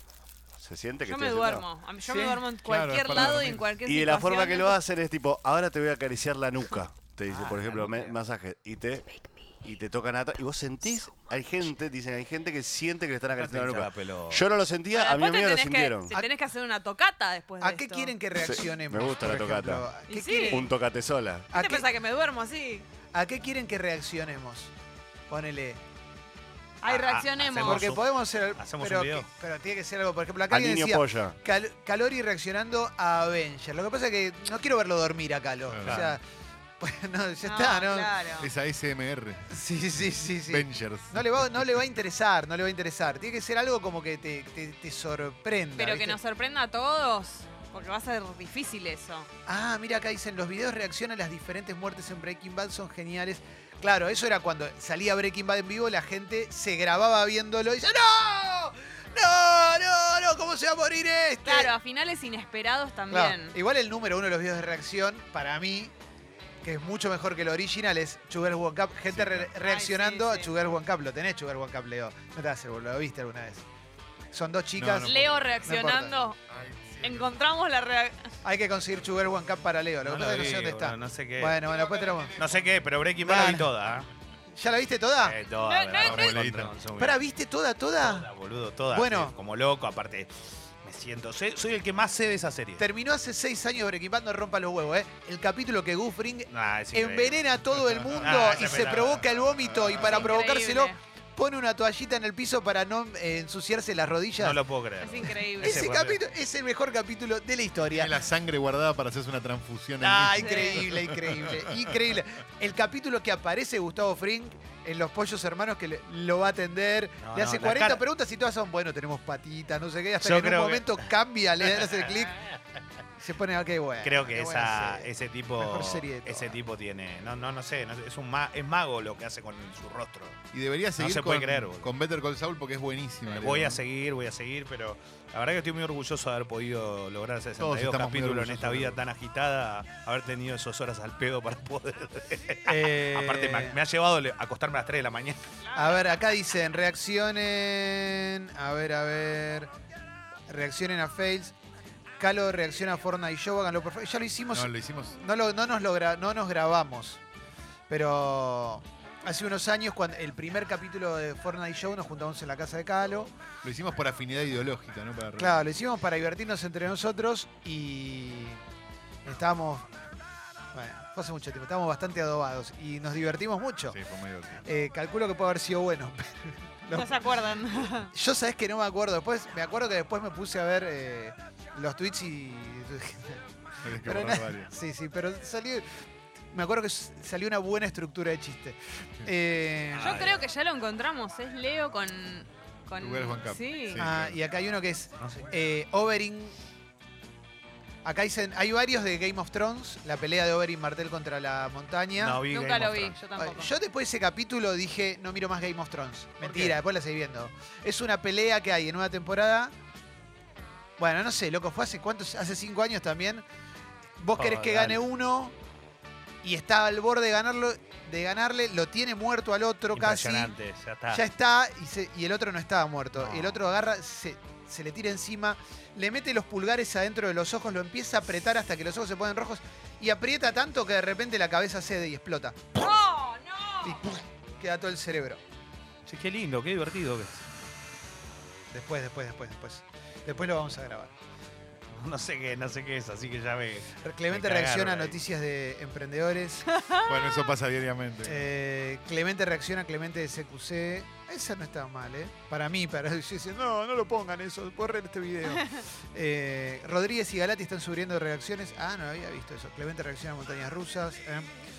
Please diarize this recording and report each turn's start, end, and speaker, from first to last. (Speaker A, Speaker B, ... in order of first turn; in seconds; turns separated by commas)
Speaker A: 0.6-1.6, Speaker B: 1.0-4.8, Speaker C: 2.0-2.4, Speaker D: 2.6-3.7, Speaker A: 3.8-9.1, Speaker E: 7.3-8.2, Speaker A: 9.6-16.1, Speaker E: 13.3-14.4, Speaker B: 14.9-18.1, Speaker C: 17.6-20.7, Speaker A: 18.4-19.9, Speaker B: 20.1-20.7, Speaker A: 20.5-21.5, Speaker C: 21.5-21.9, Speaker B: 21.5-22.9, Speaker C: 23.1-24.7, Speaker C: 25.3-25.8, Speaker B: 26.8-27.9, Speaker E: 26.9-29.3, Speaker C: 27.6-36.2, Speaker A: 30.5-31.4, Speaker D: 35.7-36.1, Speaker E: 35.8-36.1, Speaker C: 36.8-38.2, Speaker B: 37.4-38.5, Speaker D: 38.4-39.6, Speaker C: 39.5-46.2, Speaker D: 40.5-41.7, Speaker B: 45.8-49.3, Speaker C: 49.5-61.7, Speaker B: 61.4-63.5, Speaker C: 63.1-65.9, Speaker C: 66.6-73.6, Speaker D: 69.1-69.5, Speaker B: 69.6-70.5, Speaker C: 74.3-76.1, Speaker D: 74.7-75.7, Speaker B: 75.0-76.4, Speaker D: 76.6-77.2, Speaker B: 77.0-78.3, Speaker C: 78.4-82.4, Speaker E: 80.0-81.7, Speaker E: 82.3-84.1, Speaker C: 83.2-83.7, Speaker C: 84.5-85.4, Speaker E: 85.2-87.2, Speaker B: 85.6-86.4, Speaker D: 86.0-86.7, Speaker C: 87.0-88.3, Speaker E: 88.0-92.8, Speaker C: 88.9-89.3, Speaker C: 92.8-104.6, Speaker E: 96.5-97.4, Speaker D: 97.9-100.0, Speaker E: 98.2-99.2, Speaker B: 100.0-101.0, Speaker E: 104.4-106.2, Speaker B: 105.0-105.9, Speaker C: 105.6-108.1, Speaker D: 107.8-111.7, Speaker C: 110.0-122.4, Speaker B: 110.4-110.9, Speaker E: 117.2-118.0, Speaker E: 120.2-121.0, Speaker E: 121.8-122.0, Speaker C: 123.2-126.5, Speaker E: 124.0-130.4, Speaker D: 130.5-133.8, Speaker E: 131.0-131.9, Speaker E: 133.3-145.4, Speaker D: 137.6-139.0, Speaker C: 142.7-143.8, Speaker B: 145.7-146.1, Speaker C: 145.7-149.7, Speaker C: 150.5-151.5, Speaker C: 152.2-157.2, Speaker D: 154.5-155.2, Speaker C: 157.9-163.3, Speaker D: 163.6-165.7, Speaker C: 165.4-168.6, Speaker C: 169.2-169.8, Speaker C: 170.7-174.0, Speaker D: 173.9-174.6, Speaker C: 174.6-177.3, Speaker B: 176.9-178.1, Speaker C: 178.0-185.9, Speaker D: 183.8-184.7, Speaker C: 186.5-190.4, Speaker B: 189.9-194.0, Speaker E: 190.0-190.3, Speaker D: 193.0-194.4, Speaker C: 194.0-196.5, Speaker E: 195.2-195.5, Speaker C: 198.0-202.4, Speaker E: 202.2-203.2, Speaker B: 202.5-203.7, Speaker C: 203.4-209.7, Speaker E: 206.4-206.8, Speaker C: 211.0-213.4, Speaker C: 214.2-215.5, Speaker E: 214.3-215.0, Speaker C: 216.4-220.5, Speaker E: 219.9-221.2, Speaker C: 221.1-232.7, Speaker E: 223.2-223.6, Speaker B: 232.7-234.0, Speaker C: 233.8-235.4, Speaker E: 236.1-237.4, Speaker C: 238.7-241.1, Speaker E: 241.9-245.2, Speaker C: 244.0-246.7, Speaker B: 246.7-247.2, Speaker D: 247.0-248.5, Speaker C: 248.2-261.5